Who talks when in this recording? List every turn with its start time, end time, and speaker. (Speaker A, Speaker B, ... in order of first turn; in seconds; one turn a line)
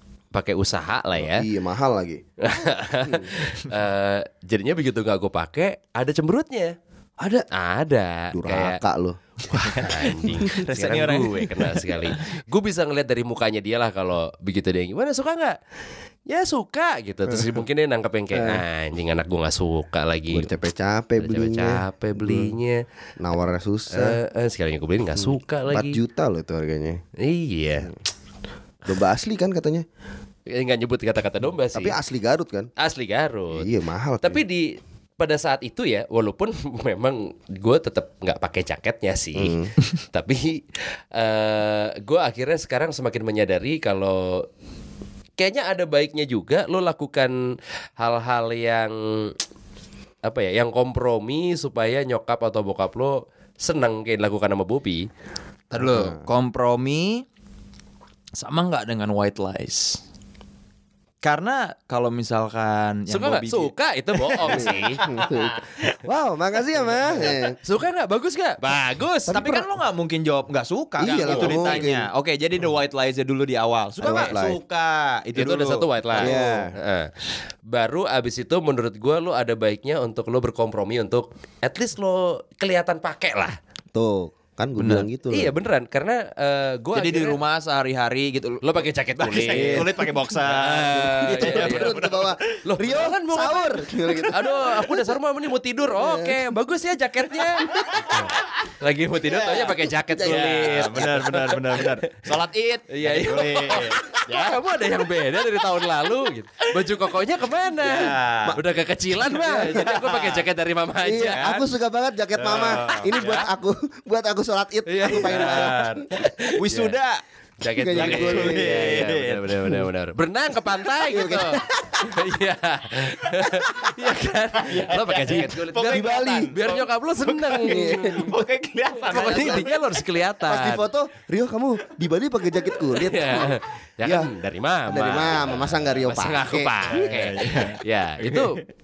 Speaker A: 0.3-1.4
Speaker B: 1.2-2.2
Speaker A: 2.4-6.7
Speaker B: 3.0-3.3
Speaker B: 7.2-7.5
Speaker A: 7.5-8.8
Speaker B: 8.3-9.2
Speaker A: 9.5-15.6
Speaker C: 9.5-12.2
Speaker A: 16.3-20.5
Speaker B: 17.3-17.6
Speaker B: 18.3-18.6
Speaker B: 20.3-22.6
Speaker A: 21.2-22.8
Speaker B: 23.2-24.2
Speaker A: 23.9-26.0
Speaker B: 25.2-27.0
Speaker A: 27.2-27.9
Speaker B: 28.9-29.9
Speaker A: 30.5-32.0
Speaker B: 31.7-32.7
Speaker A: 32.8-33.7
Speaker B: 33.5-34.4
Speaker A: 34.2-34.7
Speaker A: 35.2-44.5
Speaker B: 39.4-39.7
Speaker A: 45.4-47.3
Speaker A: 48.0-49.3
Speaker A: 50.2-55.0
Speaker C: 55.7-57.2
Speaker B: 55.8-56.2
Speaker C: 58.4-60.0
Speaker C: 61.2-63.7
Speaker A: 63.1-65.2
Speaker C: 64.3-64.8
Speaker B: 64.4-67.6
Speaker A: 67.2-69.7
Speaker C: 69.3-76.7
Speaker B: 71.0-72.1
Speaker A: 71.0-71.9
Speaker A: 74.0-74.3
Speaker B: 74.0-74.6
Speaker A: 75.3-77.1
Speaker B: 76.2-76.7
Speaker A: 77.7-83.5
Speaker B: 83.9-85.5
Speaker C: 84.8-85.1
Speaker A: 85.3-87.4
Speaker C: 86.9-88.6
Speaker A: 88.6-92.0
Speaker C: 89.1-92.3
Speaker B: 89.5-90.0
Speaker B: 90.7-95.1
Speaker A: 92.7-102.1
Speaker B: 95.9-96.4
Speaker B: 99.3-101.1
Speaker C: 100.2-104.3
Speaker A: 102.9-111.6
Speaker C: 107.8-108.6
Speaker B: 109.2-109.9
Speaker C: 109.3-110.4
Speaker B: 111.0-116.1
Speaker C: 111.2-111.6
Speaker C: 112.3-113.5
Speaker A: 114.9-116.9
Speaker C: 115.0-117.2
Speaker A: 117.6-128.3
Speaker B: 117.7-119.1
Speaker C: 118.0-119.9
Speaker B: 121.1-122.0
Speaker C: 124.6-130.0
Speaker B: 125.9-126.5
Speaker B: 127.6-128.3
Speaker A: 129.1-130.8
Speaker B: 129.2-129.7
Speaker B: 130.4-134.3
Speaker A: 133.0-138.6
Speaker B: 134.9-136.8
Speaker C: 136.9-138.6